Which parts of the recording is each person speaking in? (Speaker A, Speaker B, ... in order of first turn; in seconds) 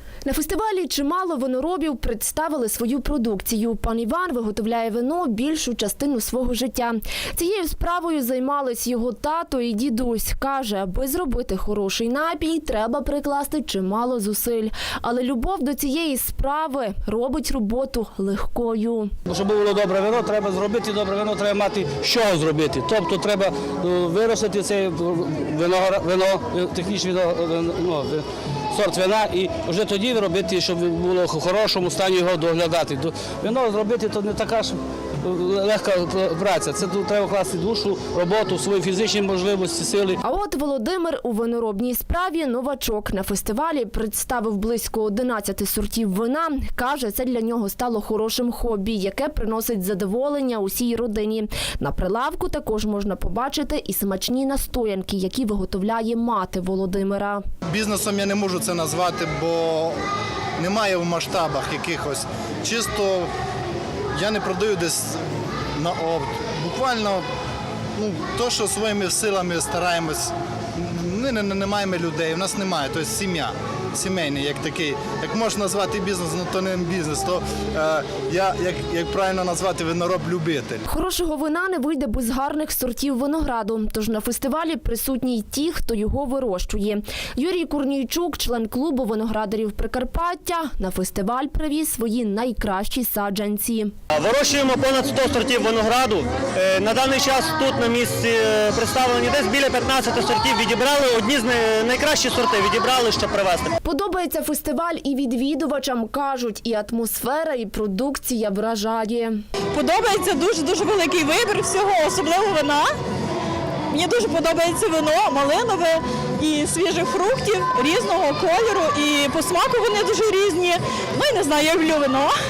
Speaker A: 0.3-19.1, 40.2-57.4, 80.9-93.9, 103.8-109.4
Speaker B: 19.3-40.2
Speaker C: 57.7-60.0, 60.6-63.3, 64.2-65.2, 65.8-67.2, 68.0-80.8
Speaker D: 94.1-103.7
Speaker E: 109.7-112.9, 113.9-122.3